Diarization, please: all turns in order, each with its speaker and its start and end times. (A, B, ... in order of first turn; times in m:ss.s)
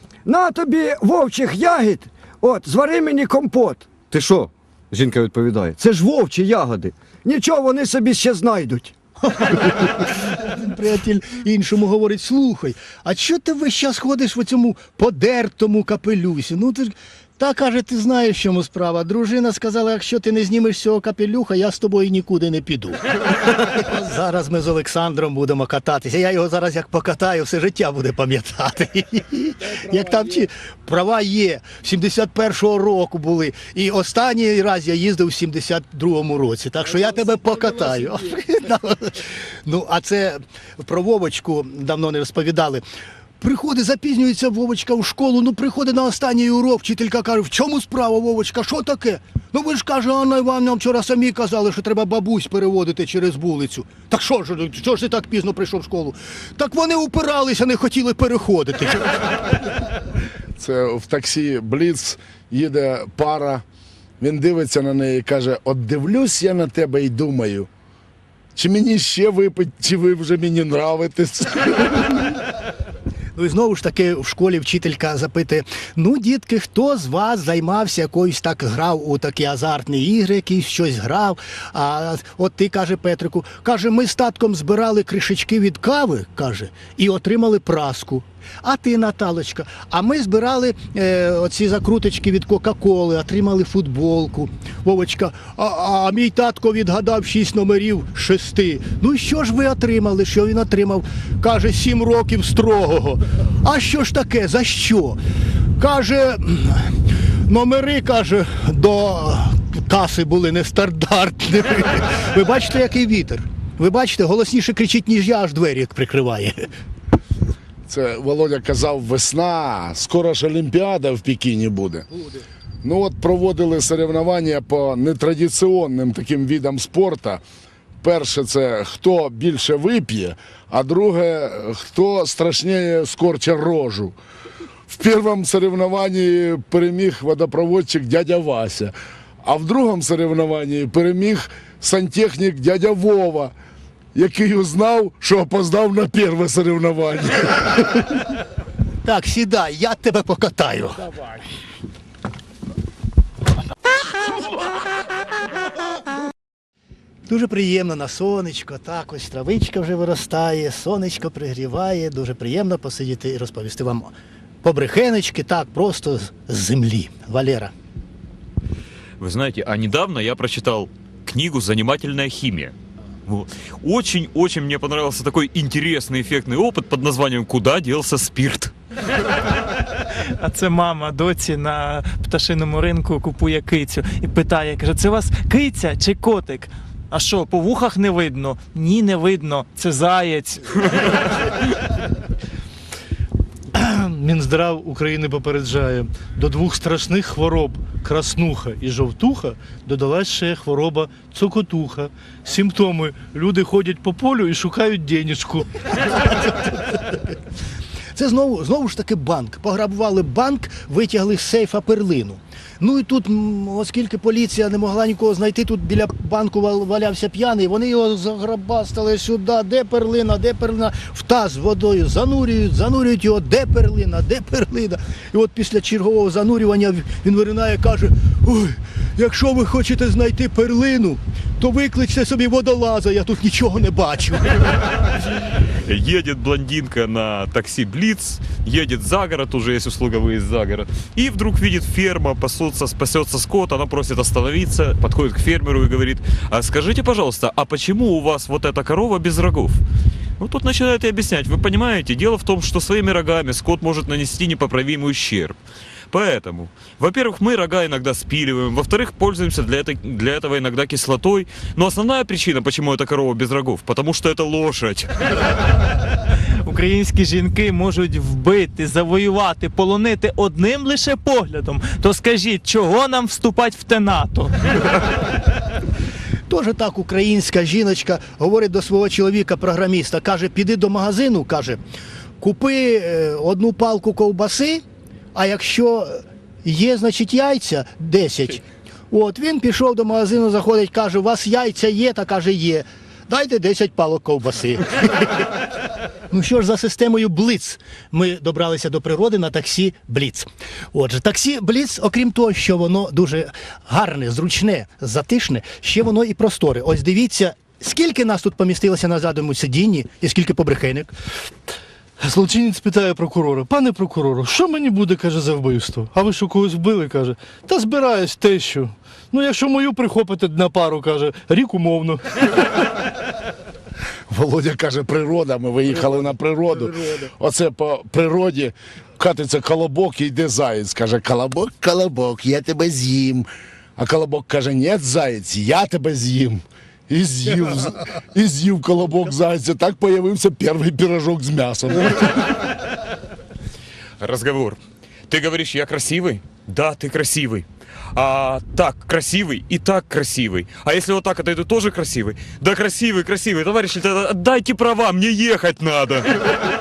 0:00.2-0:04.0 A
0:04.0-0:05.8 B
0:05.8-0:08.9 A
0:06.6-0:06.9 B
0:09.3-0:23.0 C
0:23.5-0:42.8 C
0:43.4-0:59.3 C
1:00.6-1:03.6 D
1:04.2-1:07.7 D
1:08.5-1:12.3 D
1:13.4-1:45.2 C
1:45.8-1:46.9 C
1:47.5-1:56.7 C
1:57.9-2:02.1 D
2:02.8-2:07.4 D
2:08.0-2:14.2 D
2:14.9-2:23.5 D
2:24.1-2:28.2 D
2:29.0-2:31.1 C
2:37.3-2:47.7 C
2:49.2-2:52.7 E
2:53.2-2:58.7 E
3:00.4-3:11.3 F
3:13.7-3:26.3 G
3:26.2-3:27.0 C
3:28.1-3:54.6 C
3:55.8-4:09.8 E
4:10.4-4:15.6 E
4:16.1-4:25.4 E
4:26.6-4:34.7 F
4:36.5-4:41.8 C
4:42.4-4:55.5 C
4:56.3-5:11.1 C
5:12.2-5:22.8 G
5:24.3-5:42.5 D
5:44.2-5:56.3 E